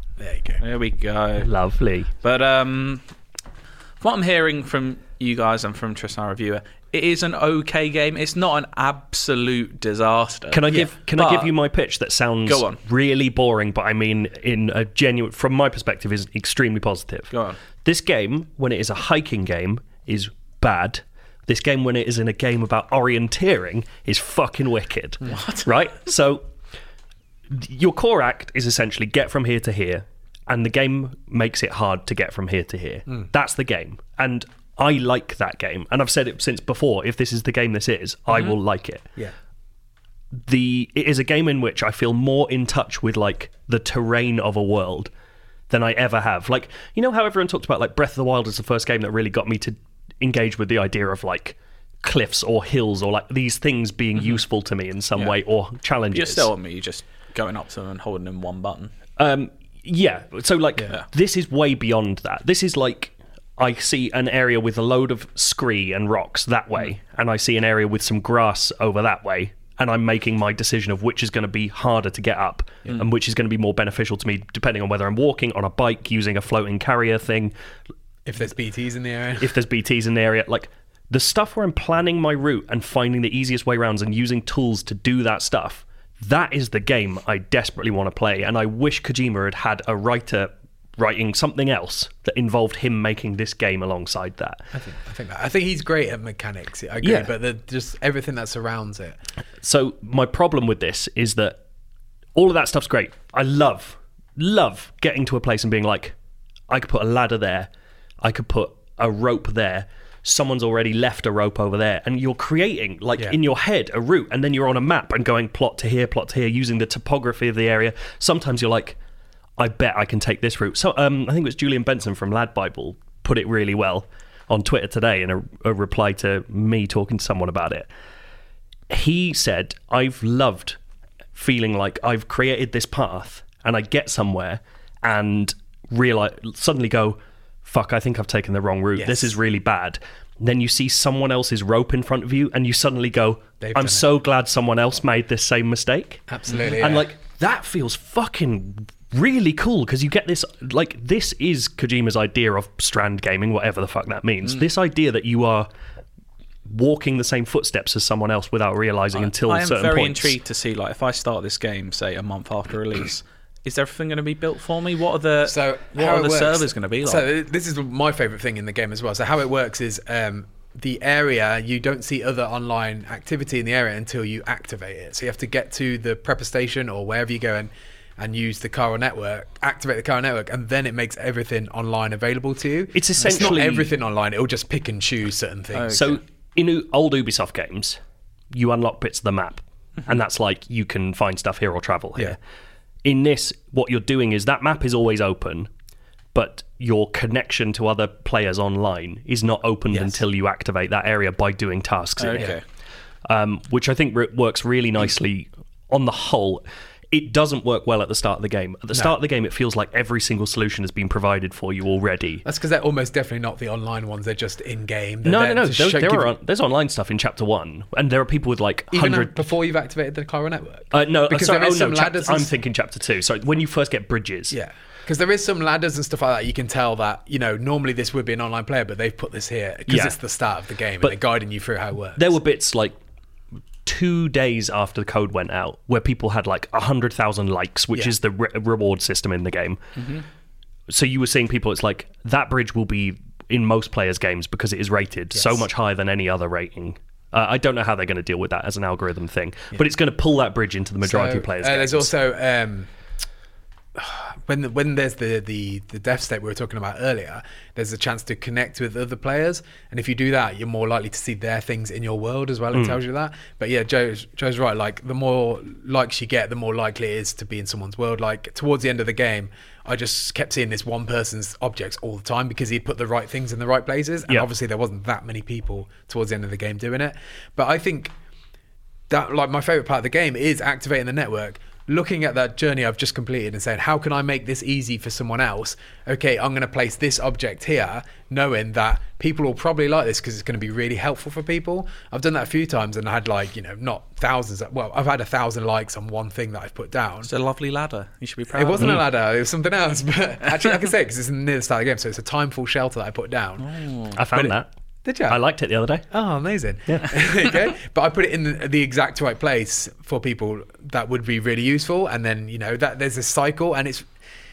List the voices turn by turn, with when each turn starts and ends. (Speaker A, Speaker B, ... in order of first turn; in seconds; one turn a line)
Speaker A: 0.2-0.6
Speaker B: 0.6-1.5
Speaker C: 1.4-2.1
Speaker B: 2.2-3.0
Speaker B: 4.0-11.5
Speaker C: 10.5-17.3
Speaker B: 12.4-12.8
Speaker B: 17.3-17.6
Speaker C: 17.8-26.4
Speaker B: 25.2-25.7
Speaker C: 27.5-39.1
Speaker C: 40.4-45.1
Speaker C: 45.7-56.5
Speaker B: 56.1-58.9
Speaker C: 59.2-77.5
Speaker A: 78.2-79.5
Speaker C: 79.4-94.7
Speaker A: 94.7-99.2
Speaker C: 97.0-97.3
Speaker C: 99.6-101.6
Speaker C: 102.3-106.1
Speaker C: 106.7-107.7
Speaker C: 108.2-119.0
Speaker C: 119.6-127.9
Speaker C: 128.9-130.8
Speaker C: 131.3-146.2
Speaker A: 139.0-139.3
Speaker A: 143.6-144.1
Speaker A: 146.3-147.1
Speaker C: 146.8-155.7
Speaker C: 156.6-160.3
Speaker B: 159.1-167.3
Speaker A: 165.4-186.2
Speaker C: 182.9-183.9
Speaker B: 183.3-183.6
Speaker B: 185.7-186.1
Speaker C: 185.9-188.0
Speaker C: 188.5-192.4
Speaker C: 193.0-195.7
Speaker C: 196.3-202.5
Speaker A: 199.9-200.2
Speaker B: 202.2-202.6
Speaker C: 203.2-212.4
Speaker A: 212.4-216.3
Speaker C: 215.2-219.5
Speaker A: 218.9-222.5
Speaker C: 220.9-224.6
Speaker A: 224.5-232.4
Speaker C: 229.9-230.2
Speaker C: 232.2-232.9
Speaker C: 233.8-239.8
Speaker B: 240.0-240.2
Speaker C: 240.9-252.1
Speaker A: 245.3-245.7
Speaker A: 251.0-252.9
Speaker A: 253.9-278.1
Speaker C: 262.7-263.0
Speaker A: 279.1-297.3
Speaker B: 297.2-299.0
Speaker A: 298.5-303.7
Speaker C: 298.8-299.0
Speaker B: 303.6-304.2
Speaker C: 304.1-304.7
Speaker A: 304.3-305.4
Speaker C: 305.3-306.1
Speaker A: 306.1-314.1